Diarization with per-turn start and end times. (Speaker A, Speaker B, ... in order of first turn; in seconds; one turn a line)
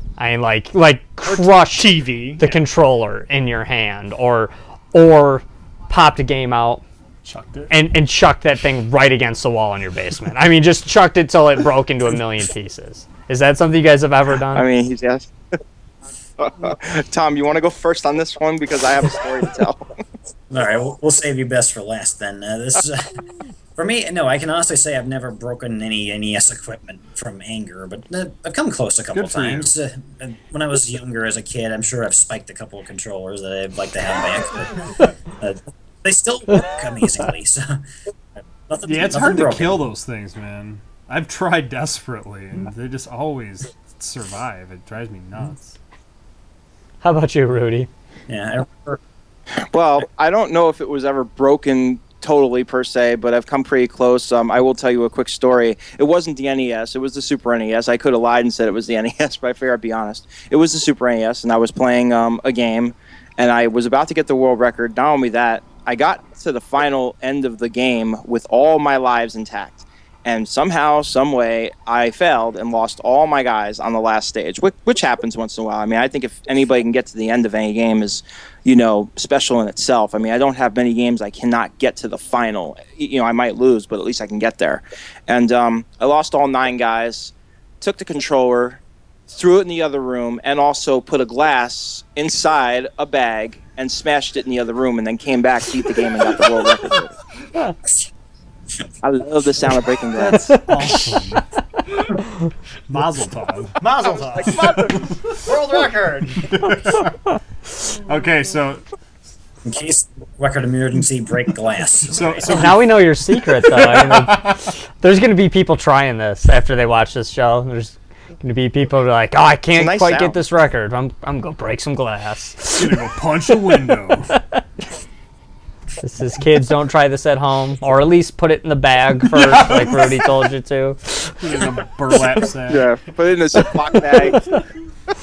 Speaker A: 0.2-6.8
Speaker B: 1.3-2.6
Speaker C: 7.2-7.7
Speaker A: 7.7-14.7
Speaker D: 14.5-15.3
Speaker D: 16.4-19.9
Speaker E: 20.5-23.2
Speaker E: 23.8-37.8
Speaker C: 29.1-29.7
Speaker E: 38.7-39.9
Speaker C: 38.9-45.8
Speaker A: 47.0-47.9
Speaker E: 48.3-49.0
Speaker D: 49.6-97.2
Speaker D: 99.0-100.4
Speaker C: 100.1-101.5
Speaker A: 101.0-101.2
Speaker C: 102.9-103.8
Speaker B: 103.8-106.7
Speaker D: 104.4-104.8
Speaker C: 104.5-105.4
Speaker C: 106.5-107.1
Speaker C: 107.8-108.8
Speaker E: 109.6-112.5
Speaker C: 112.1-114.6
Speaker A: 112.5-124.6
Speaker D: 119.7-120.4
Speaker C: 122.8-124.4
Speaker A: 126.0-131.4
Speaker C: 129.3-130.3
Speaker C: 131.4-132.9
Speaker D: 132.7-134.5